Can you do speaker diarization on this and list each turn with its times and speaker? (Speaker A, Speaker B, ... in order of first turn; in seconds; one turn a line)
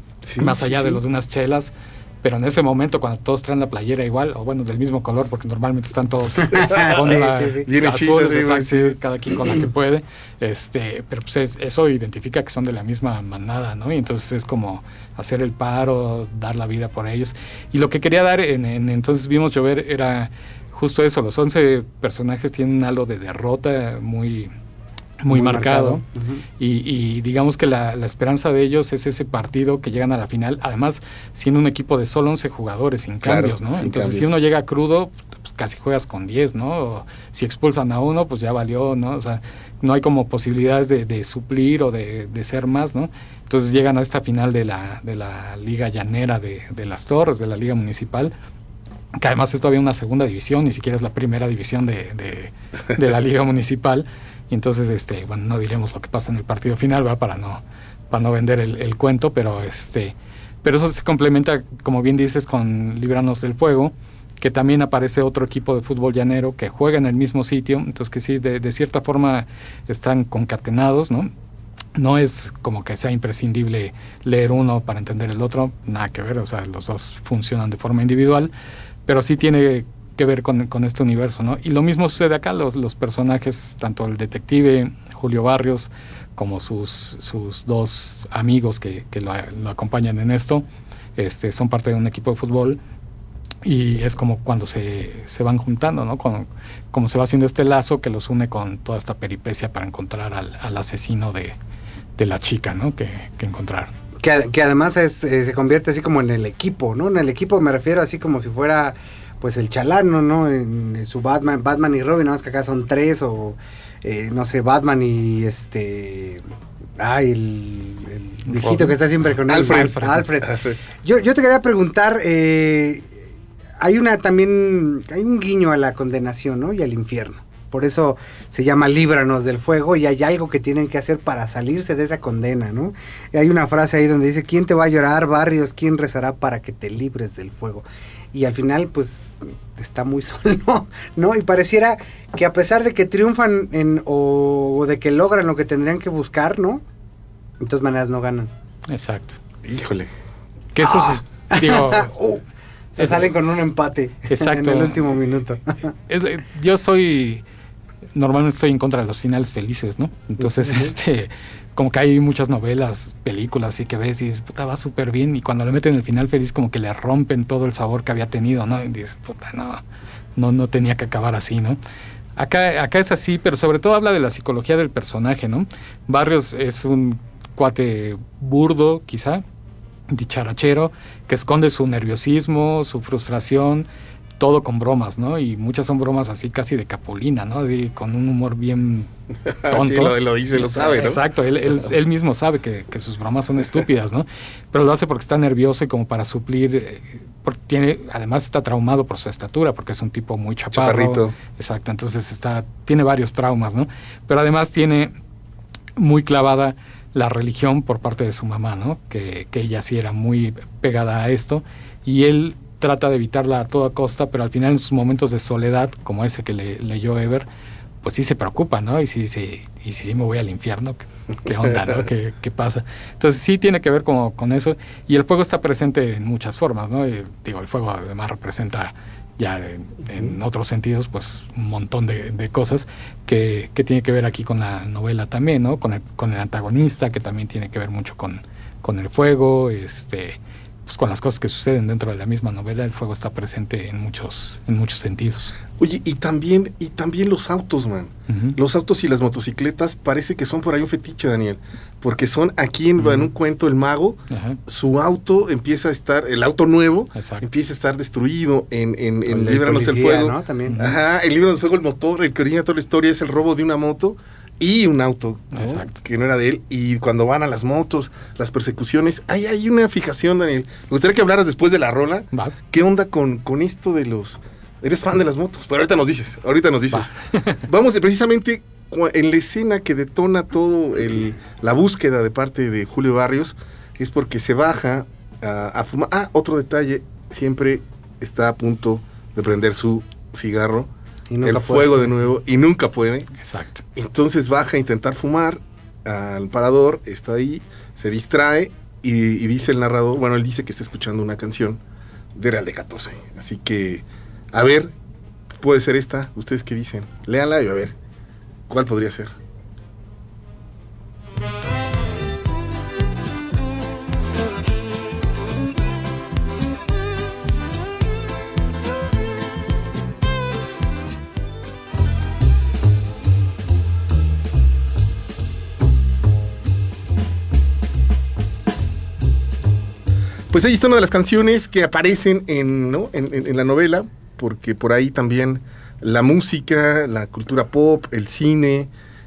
Speaker A: 0.2-1.0
Speaker B: 0.4-24.5
Speaker C: 6.5-7.7
Speaker A: 6.6-7.0
Speaker A: 7.7-9.0
Speaker B: 25.2-26.0
Speaker C: 25.3-26.4
Speaker B: 26.6-48.3
Speaker A: 33.2-34.3
Speaker B: 49.1-71.3
Speaker B: 72.0-78.5
Speaker B: 79.1-90.7
Speaker B: 91.2-92.8
Speaker B: 93.6-101.6
Speaker B: 102.2-103.9
Speaker C: 104.2-116.4
Speaker C: 117.0-123.1
Speaker B: 118.5-120.2
Speaker A: 119.5-120.8
Speaker C: 123.8-146.8
Speaker C: 147.6-148.5
Speaker B: 148.9-149.4
Speaker A: 149.7-150.1
Speaker B: 150.8-152.1
Speaker C: 150.8-155.9
Speaker B: 153.0-153.3
Speaker B: 154.3-155.0
Speaker B: 156.1-157.4
Speaker B: 158.2-169.8
Speaker B: 170.4-171.8
Speaker B: 172.4-179.4
Speaker B: 180.1-183.9
Speaker B: 184.4-189.1
Speaker A: 189.5-191.2
Speaker B: 189.7-205.1
Speaker A: 200.7-201.3
Speaker B: 206.0-217.5
Speaker B: 218.0-245.6
Speaker A: 245.8-277.1
Speaker B: 248.3-248.6
Speaker B: 253.0-253.3
Speaker B: 254.3-254.6
Speaker B: 257.1-257.5
Speaker C: 259.3-260.8
Speaker B: 260.7-261.0
Speaker B: 265.5-265.9
Speaker B: 276.9-277.6
Speaker A: 277.6-290.9
Speaker C: 291.3-292.1
Speaker A: 291.4-293.3
Speaker B: 293.4-293.8
Speaker A: 294.0-301.8
Speaker A: 302.4-304.9
Speaker A: 305.6-307.9
Speaker A: 308.7-309.3
Speaker A: 330.5-338.9